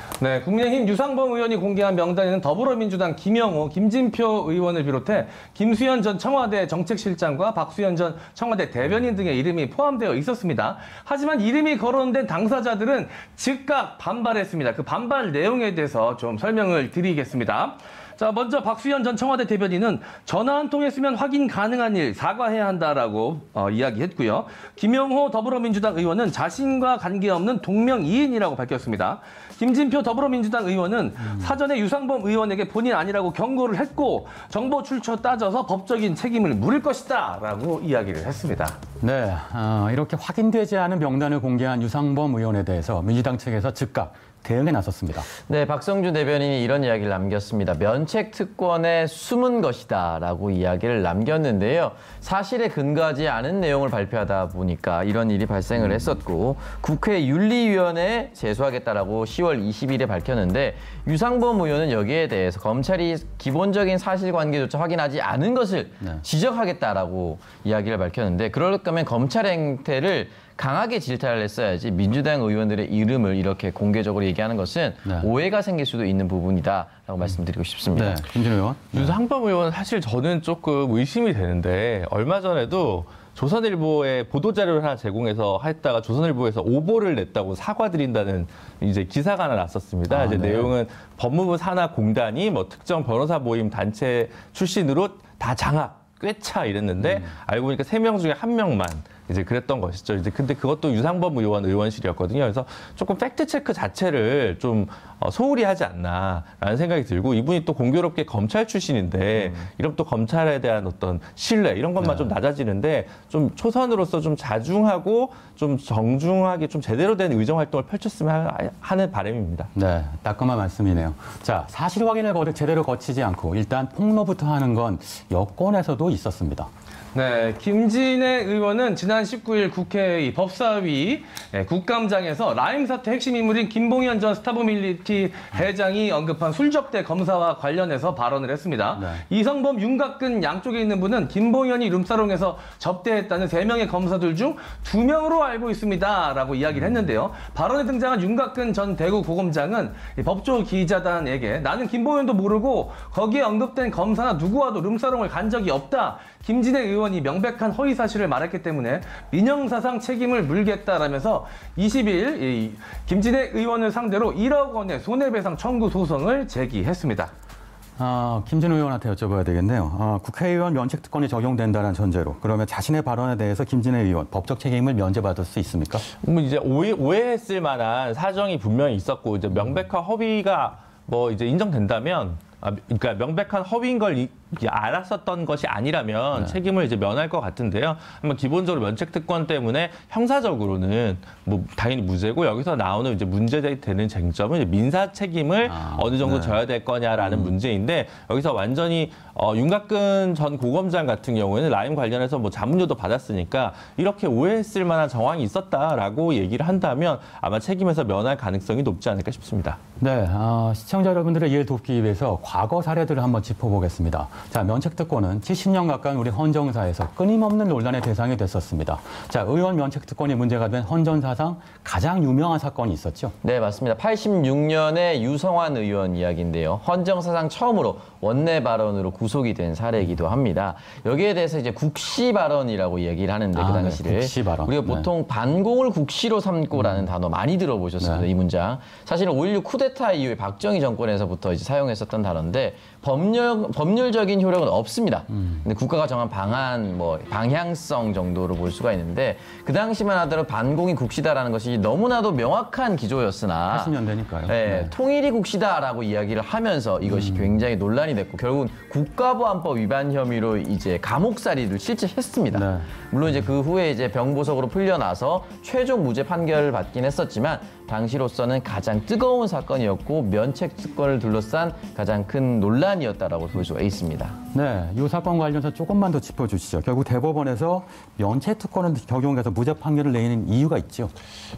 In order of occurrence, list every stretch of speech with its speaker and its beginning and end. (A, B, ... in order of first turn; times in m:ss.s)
0:00.2-0:38.8 A
0:39.0-0:45.3 B
0:45.5-1:18.2 C
1:17.9-1:19.2 B
1:18.9-1:59.7 D
1:30.1-1:30.7 B
1:52.0-1:52.3 B
1:59.7-2:06.7 B
2:07.1-2:47.3 A
2:19.0-2:19.2 B
2:48.0-2:56.0 B
2:56.2-3:29.8 D
3:15.7-3:16.6 B
3:17.2-3:17.5 B
3:30.0-3:43.3 B
3:43.4-4:34.4 C
3:53.5-3:55.1 B
3:58.0-3:58.3 B
4:13.7-4:14.9 B
4:17.0-4:17.6 B
4:22.5-4:22.9 B
4:34.5-4:41.1 B